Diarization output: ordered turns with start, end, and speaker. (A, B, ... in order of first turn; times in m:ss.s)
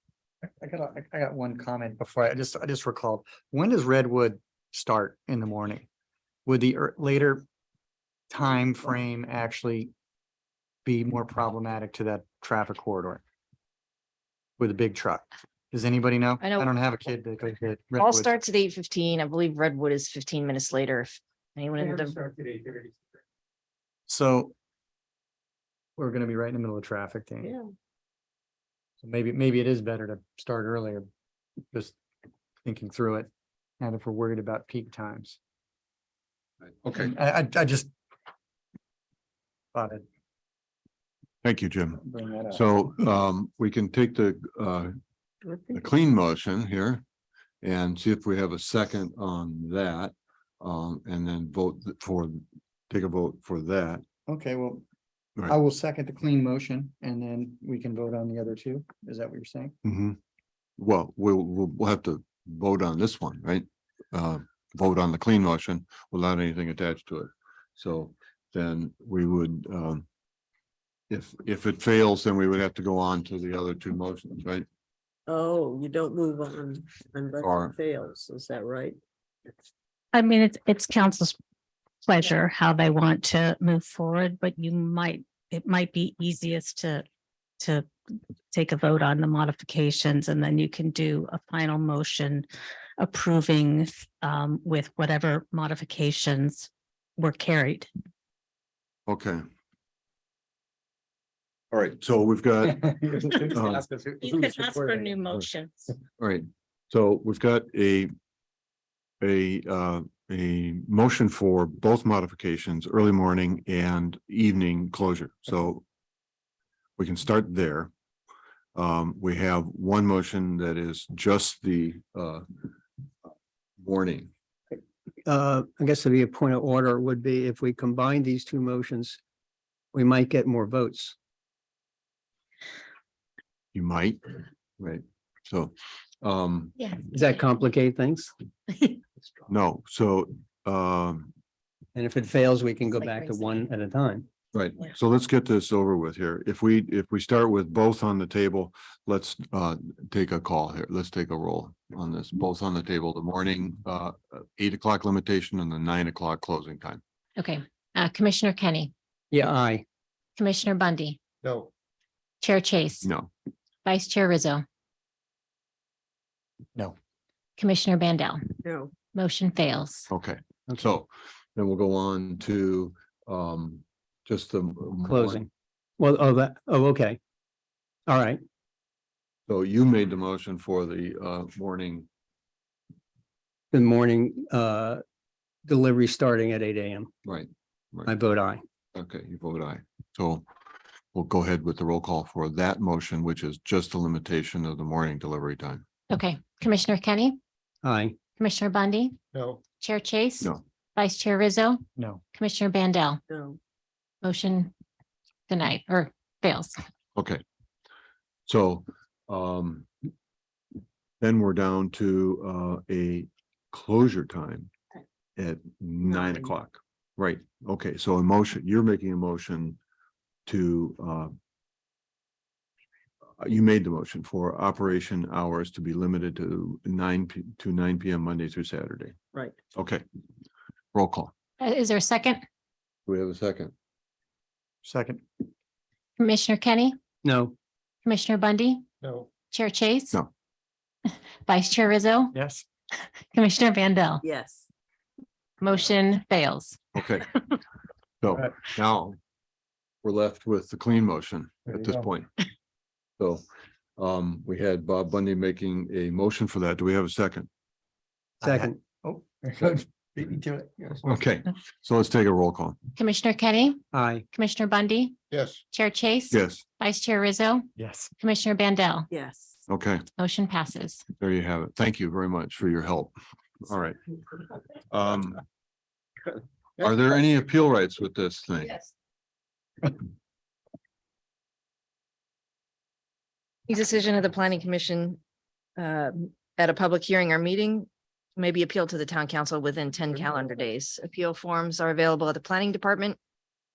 0:00.6-0:05.8 A
0:06.4-0:07.4 A
0:08.3-0:09.9 A
0:10.8-0:13.2 A
0:14.6-0:18.4 A
0:16.4-0:16.7 B
0:18.0-0:22.2 B
0:24.1-0:24.5 A
0:26.0-0:27.5 A
0:29.0-0:31.1 A
0:32.6-0:33.3 A
0:33.8-0:35.4 A
0:36.8-0:37.1 C
0:36.9-0:37.9 A
0:39.7-0:40.0 A
0:41.4-0:44.9 C
0:42.0-0:42.6 A
0:45.7-0:47.0 C
0:47.6-0:54.0 C
0:54.3-0:54.8 A
0:55.4-0:59.7 A
0:59.8-1:00.2 C
1:00.8-1:10.1 C
1:11.1-1:14.6 C
1:15.3-1:19.0 D
1:17.4-1:17.8 C
1:20.1-1:21.4 E
1:22.0-1:27.0 E
1:27.6-1:27.9 E
1:28.5-1:32.5 E
1:33.0-1:37.9 E
1:39.1-1:39.4 C
1:41.8-1:43.8 C
1:42.8-1:45.1 A
1:44.2-1:45.9 E
1:46.2-1:48.1 C
1:49.2-1:55.8 C
1:57.0-1:57.9 C
1:58.7-2:02.4 C
2:03.8-2:04.3 C
2:05.2-2:09.2 F
2:09.9-2:11.2 F
2:13.7-2:14.2 C
2:14.8-2:16.7 C
2:17.1-2:18.3 F
2:19.5-2:21.3 C
2:21.9-2:24.2 F
2:24.5-2:37.0 C
2:37.4-2:38.9 G
2:39.3-2:39.8 F
2:40.4-2:41.2 G
2:42.4-2:43.1 G
2:43.0-2:43.3 C
2:43.8-2:44.6 G
2:47.6-2:48.5 G
2:48.6-2:48.9 D
2:49.1-2:50.1 G
2:50.1-2:55.4 C
2:55.0-2:57.2 F
2:58.1-2:58.4 F
2:59.5-3:02.1 C
3:03.7-3:05.0 F
3:05.6-3:07.1 F
3:07.2-3:08.1 C
3:08.1-3:08.6 F
3:08.9-3:10.4 C
3:11.1-3:15.8 C
3:16.1-3:17.4 G
3:17.8-3:18.1 F
3:18.4-3:19.2 G
3:19.8-3:23.2 G
3:23.3-3:23.6 D
3:24.2-3:24.7 G
3:25.5-3:26.8 G
3:27.2-3:27.4 C
3:28.5-3:29.9 C
3:31.2-3:34.7 C
3:35.4-3:39.8 C
3:40.4-3:41.3 C
3:43.4-3:49.2 C
3:49.7-3:50.0 C
3:50.9-3:51.3 C
3:51.6-3:52.4 G
3:53.0-3:53.7 C
3:54.8-3:55.2 A
3:56.2-3:57.0 G
3:57.2-3:57.5 F
3:58.0-3:58.8 G
3:59.5-4:00.2 G
4:01.1-4:02.4 G
4:02.3-4:02.6 A
4:03.3-4:04.2 G
4:04.2-4:04.7 D
4:05.6-4:06.8 G
4:06.9-4:07.3 C
4:08.2-4:09.2 C
4:10.0-4:12.3 C
4:14.0-4:17.5 C
4:18.4-4:21.0 A
4:18.4-4:18.8 F
4:21.0-4:22.8 C
4:23.0-4:25.2 G
4:23.9-4:24.2 F
4:25.7-4:29.1 G
4:26.3-4:26.6 C
4:27.8-4:28.1 A
4:29.1-4:29.5 D
4:29.7-4:30.0 C
4:30.2-4:31.0 G
4:31.2-4:34.0 C
4:34.9-4:35.4 C
4:36.8-4:38.8 C
4:43.7-4:45.2 B
4:45.8-4:53.2 B